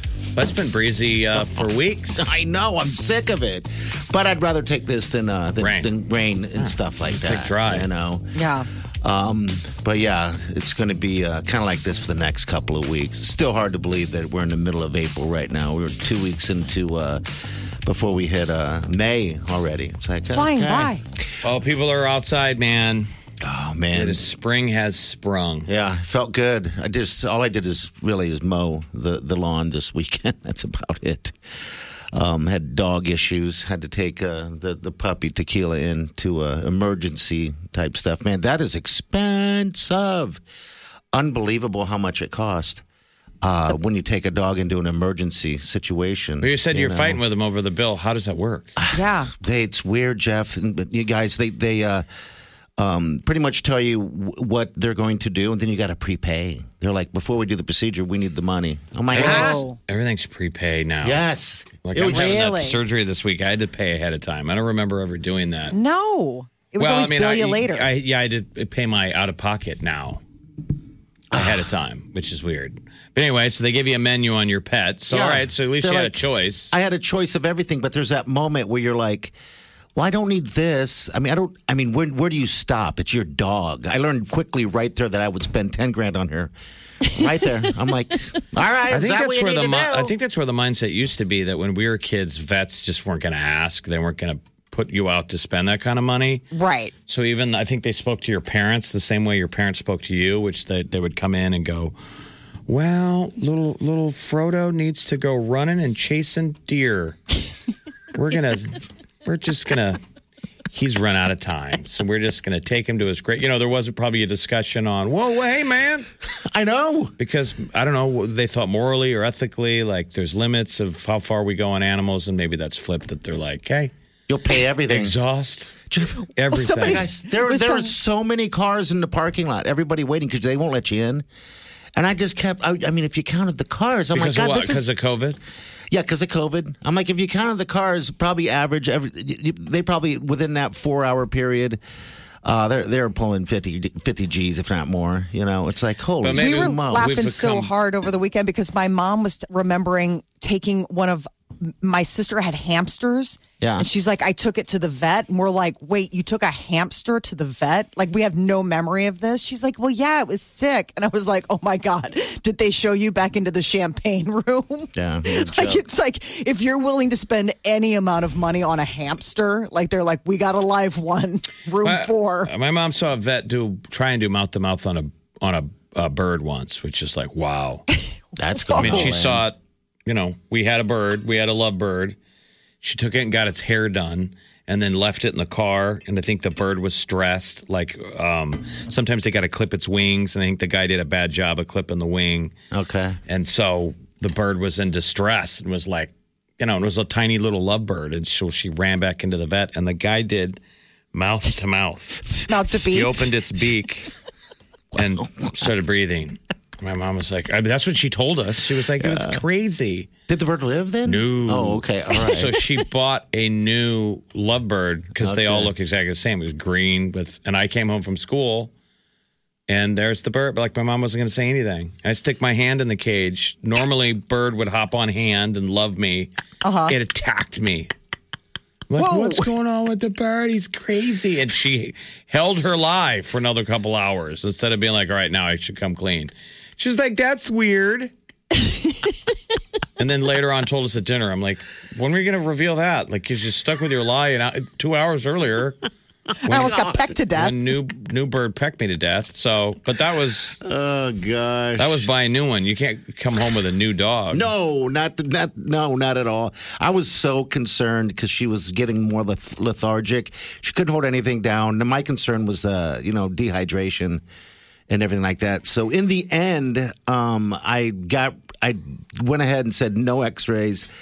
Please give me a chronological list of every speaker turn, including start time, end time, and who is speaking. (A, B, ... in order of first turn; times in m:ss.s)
0:00.4-0:02.3 A
0:02.1-0:08.3 B
0:05.6-0:05.9 A
0:06.6-0:07.9 A
0:08.3-0:08.7 C
0:09.0-0:17.2 B
0:17.8-0:21.0 B
0:20.3-0:21.0 C
0:21.4-0:23.1 A
0:23.4-0:24.2 B
0:23.9-0:25.7 A
0:25.6-0:31.4 B
0:32.1-0:40.4 B
0:41.1-0:42.8 B
0:43.4-0:47.2 B
0:46.4-0:48.7 A
0:48.8-0:52.0 B
0:48.9-0:49.3 C
0:52.8-0:59.6 B
0:59.1-1:01.2 A
0:59.1-0:59.8 C
1:01.0-1:02.5 B
1:01.8-1:05.7 A
1:02.0-1:02.8 C
1:05.7-1:07.9 C
1:06.8-1:10.2 A
1:11.3-1:11.7 B
1:11.3-1:16.7 A
1:15.1-1:19.3 B
1:19.9-1:26.5 B
1:27.0-1:30.1 B
1:28.9-1:36.4 A
1:36.5-1:36.9 C
1:37.1-1:41.9 A
1:42.7-1:47.2 A
1:48.1-1:50.0 A
1:50.7-1:56.1 A
1:56.5-1:57.1 B
1:57.2-2:03.9 A
2:04.3-2:05.2 B
2:04.9-2:05.8 A
2:05.9-2:11.2 B
2:06.4-2:07.0 A
2:06.5-2:07.9 C
2:12.0-2:14.8 B
2:14.1-2:15.4 A
2:15.9-2:21.8 B
2:22.4-2:27.2 B
2:26.2-2:27.7 A
2:26.4-2:52.5 C
2:33.6-2:33.8 B
2:44.9-2:45.8 B
2:51.8-2:57.8 A
2:58.4-2:59.4 B
2:58.6-2:59.1 C
2:58.8-3:02.2 A
3:02.8-3:12.5 A
3:12.7-3:13.2 B
3:13.3-3:20.6 A
3:21.1-3:22.3 A
3:22.5-3:23.1 C
3:22.9-3:24.1 A
3:24.9-3:25.7 B
3:24.9-3:30.1 A
3:28.9-3:29.4 B
3:30.3-3:32.6 B
3:31.0-3:38.7 A
3:35.2-3:35.7 B
3:39.7-3:46.3 A
3:46.6-3:47.0 C
3:46.9-3:47.9 A
3:48.9-3:58.1 A
3:49.0-3:49.5 C
3:58.6-3:59.1 C
4:00.0-4:05.8 A
4:06.4-4:07.5 C
4:06.4-4:06.8 A
4:06.5-4:07.0 B
4:07.3-4:10.6 A
4:10.6-4:12.1 B
4:11.8-4:14.5 A
4:14.3-4:24.2 B
4:24.9-4:30.9 B